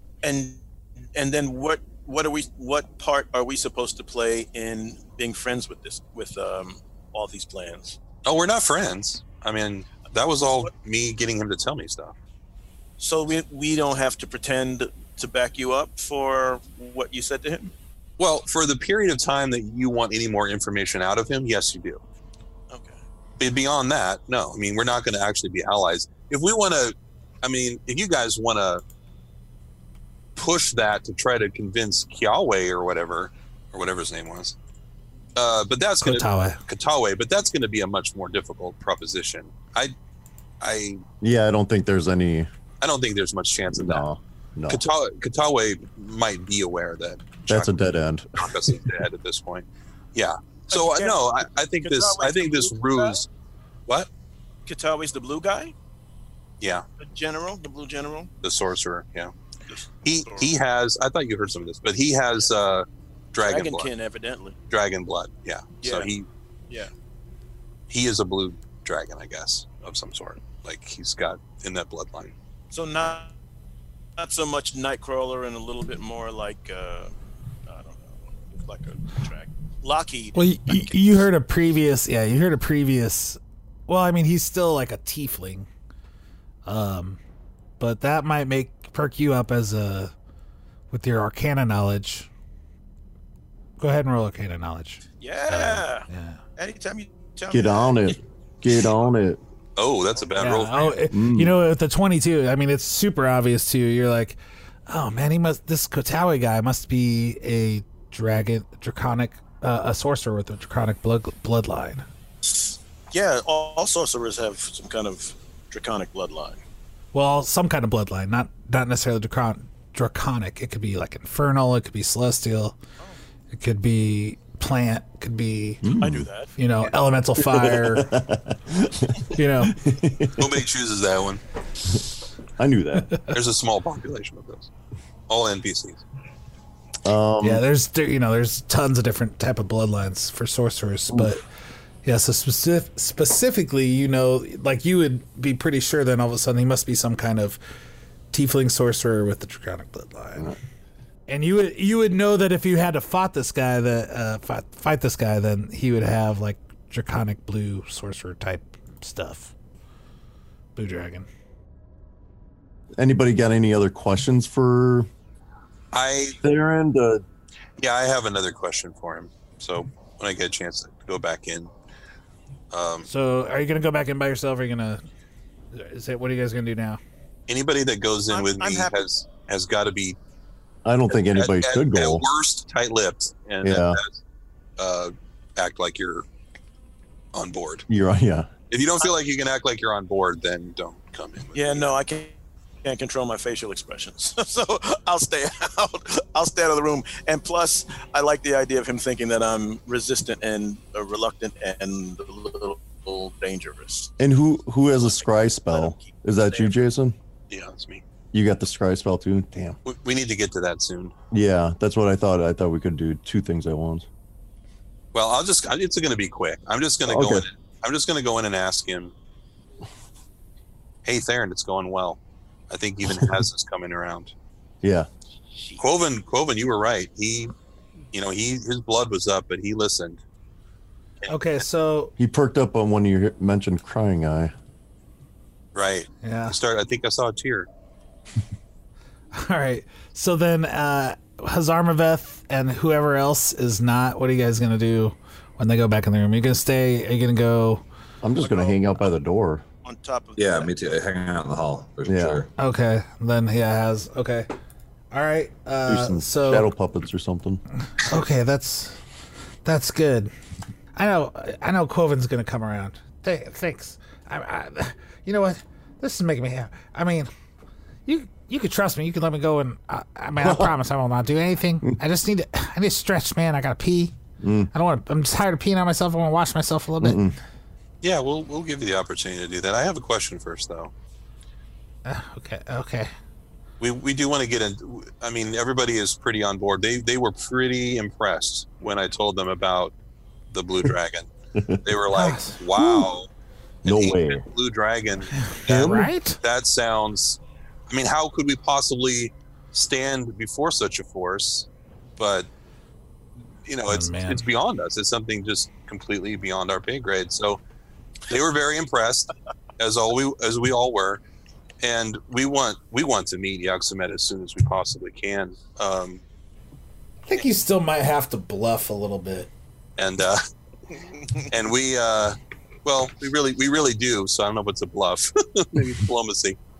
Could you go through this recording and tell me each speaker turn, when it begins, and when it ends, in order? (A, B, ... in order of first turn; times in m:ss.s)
0:00.2-0:08.0 A
0:08.2-0:12.1 B
0:13.0-0:17.7 A
0:18.2-0:22.0 B
0:22.7-0:23.0 A
0:23.4-0:28.8 B
0:30.4-0:34.6 B
0:35.4-0:39.9 B
0:36.0-0:36.6 C
0:40.6-0:41.0 B
0:41.2-0:42.5 D
0:42.8-0:44.1 B
0:43.7-0:44.8 D
0:44.7-0:47.7 B
0:47.5-0:48.8 D
0:48.4-0:53.3 B
0:50.7-0:53.2 A
0:54.7-0:55.7 A
0:57.0-0:58.3 A
0:58.4-0:59.3 B
0:59.7-1:00.5 A
1:00.0-1:03.9 B
1:03.4-1:04.6 A
1:04.7-1:06.3 B
1:05.8-1:06.1 A
1:07.9-1:12.3 B
1:12.7-1:13.3 A
1:14.2-1:17.1 A
1:17.6-1:21.0 A
1:20.3-1:25.7 C
1:26.6-1:27.2 C
1:27.8-1:30.1 C
1:30.9-1:32.3 C
1:33.8-1:36.4 C
1:35.2-1:38.2 A
1:37.5-1:39.4 D
1:39.8-1:41.0 B
1:40.4-1:52.0 C
1:41.1-1:41.6 D
1:52.4-1:56.6 A
1:57.1-2:02.8 C
2:03.5-2:05.9 C
2:05.8-2:06.3 D
2:06.0-2:06.5 A
2:06.6-2:08.1 C
2:07.4-2:10.5 D
2:09.3-2:09.8 C
2:10.4-2:11.4 B
2:12.6-2:13.2 D
2:13.3-2:14.7 B
2:15.3-2:16.0 B
2:17.0-2:17.6 D
2:17.4-2:21.4 C
2:22.0-2:27.6 C
2:28.3-2:30.5 C
2:31.3-2:39.5 C
2:40.8-2:41.3 C
2:43.0-2:45.1 D
2:45.9-2:46.4 B
2:46.4-2:47.2 D
2:47.8-2:51.7 B
2:52.7-2:53.1 B
2:53.0-2:55.0 C
2:55.7-2:57.0 C
2:57.5-3:00.2 B
2:58.3-2:59.0 A
3:00.8-3:02.2 D
3:01.2-3:04.2 B
3:03.6-3:04.0 D
3:04.8-3:06.2 B
3:07.3-3:07.8 B
3:07.9-3:08.5 D
3:08.7-3:12.0 B
3:11.5-3:24.1 A
3:24.2-3:27.2 D
3:25.0-3:26.7 A
3:27.5-3:28.0 B
3:28.3-3:29.8 D
3:29.8-3:31.1 B
3:31.3-3:34.1 D
3:35.1-3:39.1 B
3:37.0-3:37.4 D
3:41.0-3:42.2 B
3:42.7-3:44.3 B
3:44.8-3:45.1 D
3:45.8-3:47.5 B
3:48.1-3:50.2 B
3:51.3-3:52.1 C
3:52.2-3:54.5 D
3:55.7-3:57.7 B
3:56.2-3:56.6 C
3:59.3-4:07.8 C
4:08.2-4:09.6 D
4:08.4-4:08.8 A
4:09.8-4:10.7 A
4:10.4-4:12.5 E
4:12.0-4:12.4 D
4:12.6-4:14.5 C
4:15.1-4:16.7 C
4:15.8-4:17.6 D
4:18.0-4:19.0 C
4:19.6-4:20.3 C
4:21.0-4:27.3 C
4:28.0-4:34.1 C
4:30.4-4:30.7 D
4:34.4-4:34.7 D
4:34.7-4:37.2 C
4:37.0-4:37.4 D
4:38.0-4:40.9 B
4:42.0-4:43.1 C
4:43.8-4:49.9 B
4:50.5-4:51.3 B
4:51.5-4:51.8 D
4:51.8-4:53.3 B
4:52.1-4:52.6 C
4:53.8-4:57.4 B
4:53.8-4:54.4 D
4:55.3-4:56.4 C
4:57.9-5:01.7 B
5:02.2-5:02.5 B
5:03.6-5:07.6 B
5:03.9-5:04.4 C
5:08.3-5:11.2 B
5:11.8-5:16.2 B
5:17.3-5:19.5 C
5:20.0-5:20.4 B
5:21.5-5:26.6 B